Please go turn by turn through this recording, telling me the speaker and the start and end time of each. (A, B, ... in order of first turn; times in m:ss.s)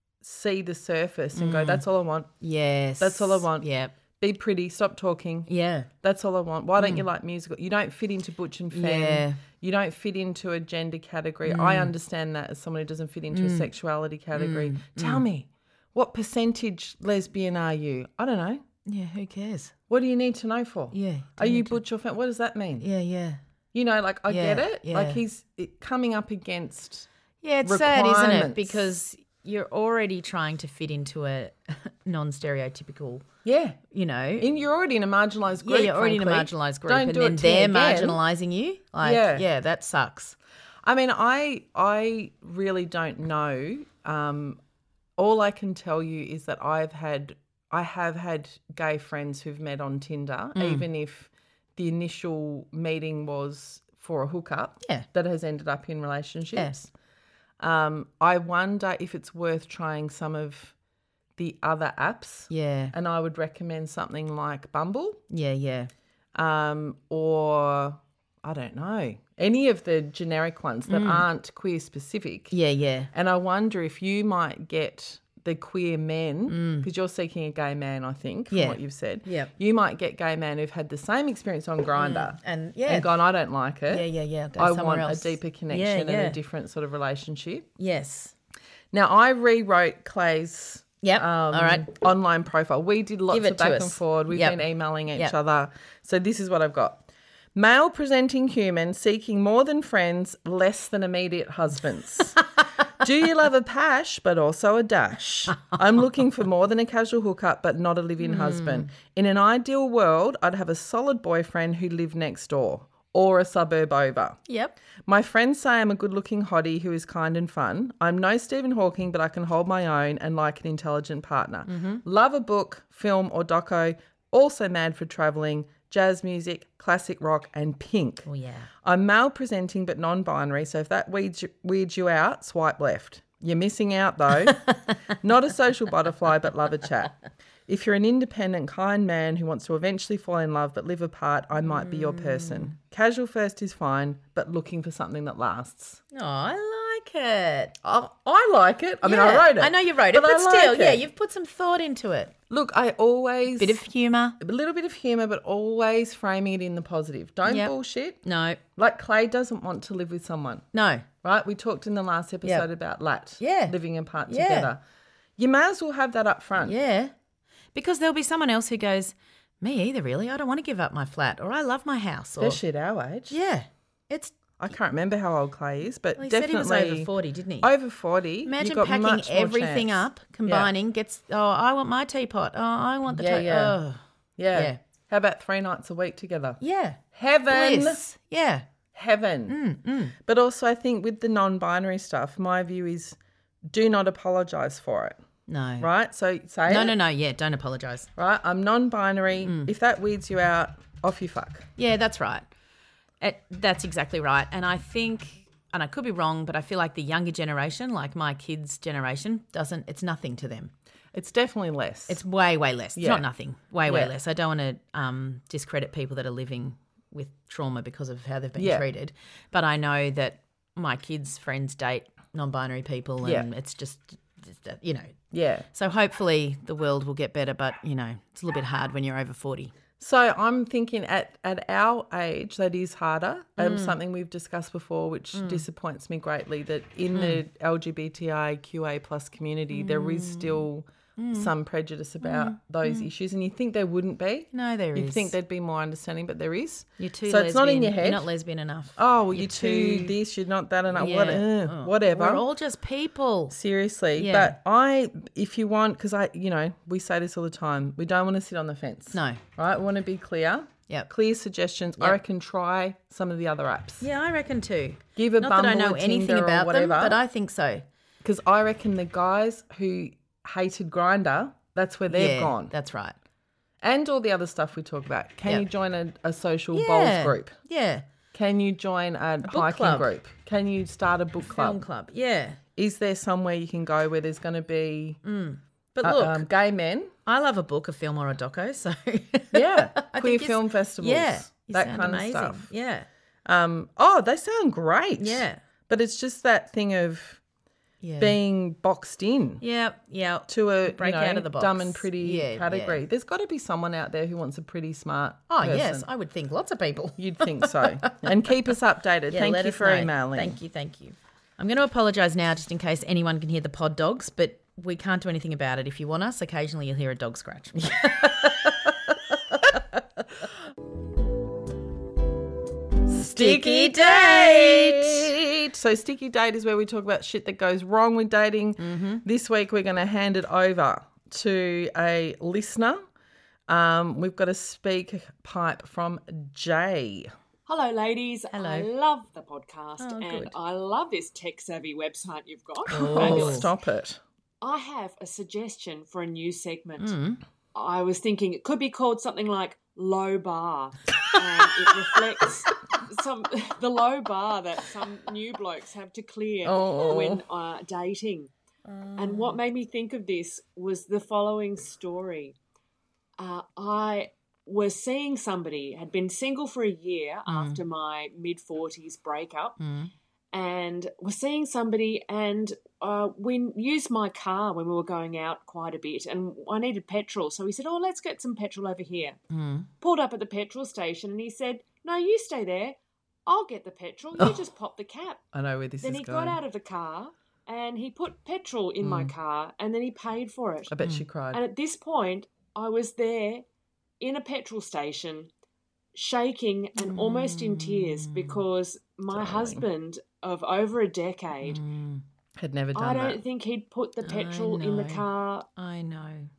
0:00.2-0:02.3 A
0:01.4-0:01.8 B
0:02.4-0:04.0 B
0:03.0-0:03.7 A
0:04.2-0:05.5 A
0:05.5-0:05.9 B
0:06.0-0:18.6 A
0:06.8-0:07.0 B
0:08.7-0:09.4 B
0:11.4-0:11.9 B
0:13.3-0:13.7 B
0:14.3-0:15.2 B
0:18.8-0:19.7 B
0:19.9-0:22.9 A
0:20.9-0:21.8 B
0:22.8-0:23.4 B
0:23.7-0:27.1 A
0:24.3-0:25.2 B
0:27.4-0:33.3 B
0:27.6-0:28.9 A
0:33.4-0:33.8 A
0:33.9-0:34.5 B
0:34.4-0:38.2 A
0:35.6-0:40.4 B
0:39.0-0:39.5 A
0:40.8-0:44.6 A
0:45.2-0:56.9 A
0:50.6-0:50.9 B
0:57.6-1:00.8 A
1:01.4-1:05.2 A
1:02.5-1:02.9 B
1:05.3-1:05.9 B
1:06.4-1:12.6 A
1:10.9-1:11.3 B
1:12.5-1:13.1 B
1:13.1-1:24.1 A
1:16.5-1:16.9 B
1:18.5-1:19.5 B
1:22.0-1:23.1 B
1:23.9-1:26.4 B
1:24.6-1:27.7 A
1:27.8-1:28.3 B
1:28.9-1:42.4 A
1:31.0-1:31.9 B
1:33.3-1:34.6 B
1:43.0-1:54.4 A
1:48.2-1:48.9 B
1:54.5-1:54.8 B
1:55.1-2:08.3 A
2:01.7-2:02.0 B
2:08.3-2:08.7 B
2:08.8-2:14.6 A
2:14.5-2:14.9 B
2:15.2-2:26.0 A
2:21.6-2:22.7 B
2:26.1-2:27.8 B
2:27.8-2:31.0 A
2:29.0-2:32.3 B
2:32.5-2:33.8 A
2:33.6-2:34.4 B
2:34.4-2:38.2 A
2:37.5-2:38.6 B
2:38.8-2:40.6 A
2:40.7-2:41.1 B
2:41.2-2:44.8 A
2:43.4-2:43.8 B
2:44.3-2:44.7 B
2:45.4-2:46.8 A
2:46.6-2:47.1 B
2:47.7-2:52.6 B
2:52.4-2:53.4 A
2:53.3-2:54.4 B
2:54.6-2:57.1 A
2:56.2-2:57.7 B
2:57.6-3:00.7 A
2:58.4-3:04.0 B
3:03.1-3:03.8 A
3:04.4-3:06.6 A
3:04.5-3:04.8 B
3:06.6-3:08.7 B
3:07.1-3:08.0 A
3:08.9-3:09.6 A
3:09.5-3:10.2 B
3:10.2-3:15.2 A
3:15.5-3:15.9 B
3:15.8-3:17.0 A
3:16.6-3:18.1 B
3:18.2-3:21.7 A
3:19.4-3:19.7 B
3:21.8-3:22.5 B
3:23.2-3:30.7 B
3:31.1-3:32.2 A
3:32.1-3:45.2 B
3:32.9-3:33.2 A
3:33.9-3:34.1 A
3:38.6-3:38.9 A
3:43.2-3:43.5 A
3:45.3-3:45.6 A
3:45.7-3:49.7 B
3:50.0-4:08.3 A
3:53.6-3:54.0 B
3:55.3-3:55.6 B
3:57.1-3:57.4 B
3:59.7-4:00.6 B
4:01.2-4:01.5 B
4:02.2-4:03.1 B
4:04.5-4:05.3 B
4:07.0-4:10.2 B
4:09.0-4:12.4 A
4:10.9-4:13.6 B
4:13.5-4:24.1 A
4:14.2-4:14.6 B
4:19.1-4:19.4 B
4:24.0-4:27.9 B
4:25.2-4:27.2 A
4:28.2-4:32.7 A
4:32.1-4:33.2 B
4:33.8-4:37.5 A
4:36.7-4:38.1 B
4:38.3-4:41.8 A
4:39.4-4:40.1 B
4:41.5-4:42.6 B
4:42.8-4:45.2 A
4:45.2-4:46.5 B
4:46.0-4:47.1 A
4:47.2-4:53.1 B
4:49.5-4:52.7 A
4:53.4-4:57.4 A
4:55.2-4:55.6 B
4:58.0-4:58.4 B
4:58.2-4:59.6 A
4:59.6-5:03.0 B
5:00.5-5:06.1 A
5:05.5-5:08.3 B
5:07.2-5:10.6 A
5:09.3-5:18.9 B
5:17.8-5:18.6 A
5:23.1-5:33.0 A
5:23.2-5:25.3 B
5:28.8-5:29.2 B
5:33.7-5:37.3 A
5:37.6-5:43.7 C
5:38.5-5:38.9 B
5:40.0-5:40.6 B
5:42.9-5:43.7 B
5:42.9-5:44.2 A
5:44.6-5:47.2 C
5:47.0-5:47.4 B
5:47.7-5:58.5 C
5:56.6-5:57.4 A
5:58.9-5:59.6 A
5:59.2-6:02.6 C
6:03.4-6:09.8 C
6:07.5-6:07.8 B
6:09.8-6:10.1 B
6:10.5-6:19.4 C
6:19.5-6:19.9 B
6:20.0-6:25.4 C
6:25.5-6:26.6 A
6:26.0-6:30.9 C
6:29.0-6:29.3 A
6:30.9-6:31.6 A
6:31.5-6:33.6 C
6:34.2-6:35.5 C
6:36.1-6:41.8 C
6:37.0-6:38.6 B
6:39.3-6:39.9 A
6:41.6-6:42.2 B
6:42.6-6:43.4 A
6:42.9-6:45.7 C
6:44.2-6:46.5 B